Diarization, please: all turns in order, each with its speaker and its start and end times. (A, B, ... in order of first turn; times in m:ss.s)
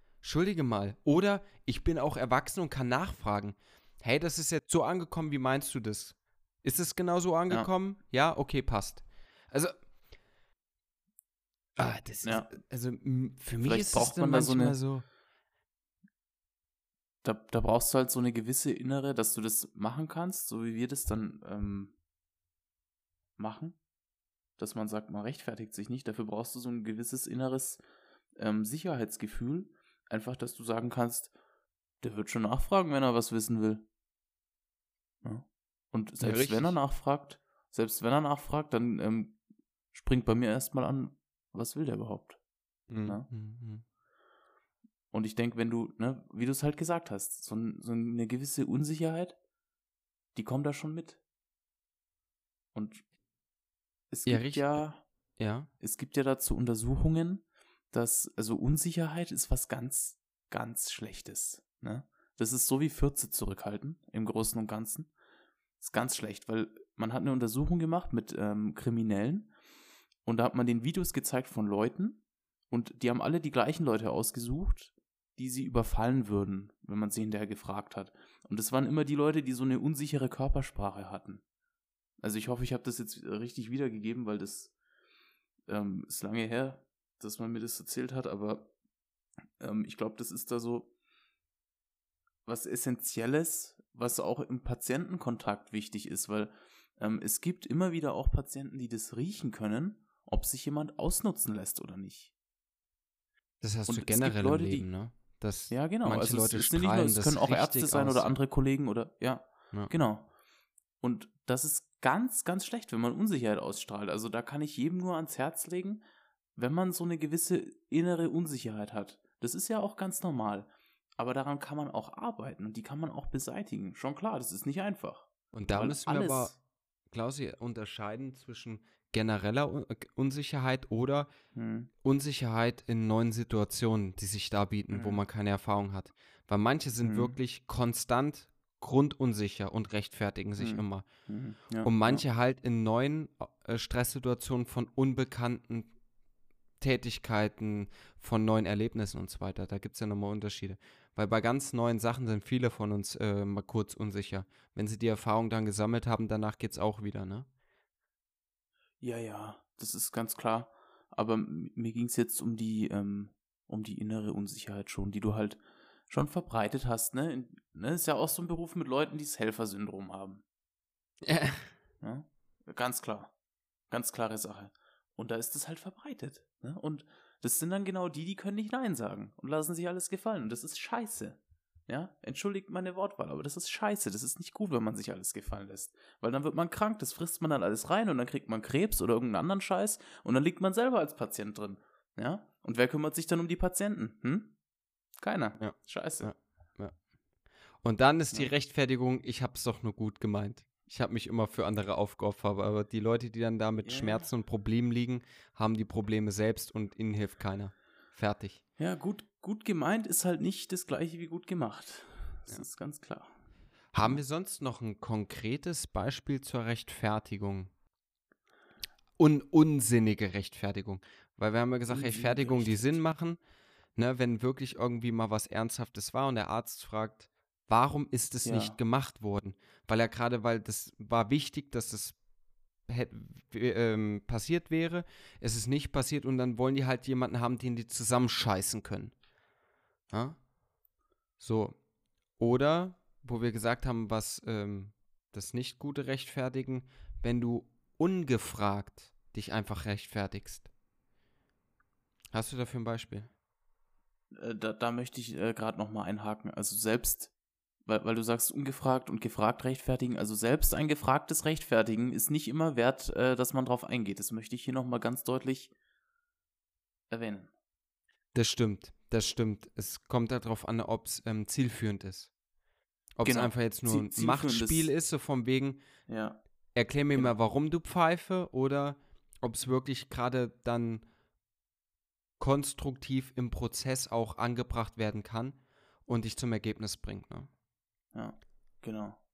0:00.2-0:09.7 A
0:11.8-0:15.0 A
0:13.6-0:14.8 B
0:17.2-0:21.9 B
0:23.4-0:23.8 B
0:24.6-0:27.8 B
0:28.4-0:31.3 B
0:32.0-0:33.9 B
0:35.2-0:39.4 B
0:36.2-0:36.8 A
0:39.9-0:42.4 B
0:42.9-0:43.8 A
0:45.1-0:49.4 B
0:50.3-0:51.2 B
0:52.7-0:53.0 B
0:54.1-0:55.0 B
0:54.2-0:54.8 A
0:55.4-0:55.7 A
0:55.8-1:05.1 B
1:05.8-1:09.5 B
1:10.2-1:21.4 B
1:22.2-1:24.7 B
1:25.7-1:28.7 B
1:29.6-1:30.9 B
1:32.4-1:42.3 B
1:43.6-1:48.3 A
1:43.9-1:44.8 B
1:45.7-1:50.3 B
1:51.0-1:56.0 B
1:56.6-2:06.6 B
2:05.5-2:06.5 A
2:07.1-2:11.3 A
2:11.5-2:11.9 B
2:12.0-2:21.0 A
2:14.9-2:15.2 B
2:17.0-2:17.4 B
2:20.6-2:22.2 B
2:21.8-2:25.9 A
2:26.8-2:37.5 A
2:39.0-2:50.4 B
2:51.2-2:51.7 A
2:52.0-2:53.3 B
2:53.9-3:14.5 B
3:15.2-3:16.3 B
3:15.6-3:16.9 A
3:17.8-3:28.6 A
3:23.8-3:24.2 B
3:28.8-3:33.3 B
3:33.9-3:37.7 A
3:39.2-3:43.4 A
3:41.9-3:43.0 B
3:44.0-3:52.2 A
3:48.4-3:48.8 B
3:52.8-3:59.1 A
4:00.1-4:00.4 A
4:01.4-4:01.8 A
4:02.4-4:10.7 A
4:12.3-4:13.3 A
4:14.3-4:17.3 B
4:17.8-4:25.7 B
4:27.1-4:27.5 B
4:28.3-4:32.3 A
4:33.2-4:35.8 A
4:33.2-4:34.9 B
4:36.1-4:36.4 B
4:36.7-4:41.0 A
4:42.4-4:47.5 A
4:48.1-4:49.2 B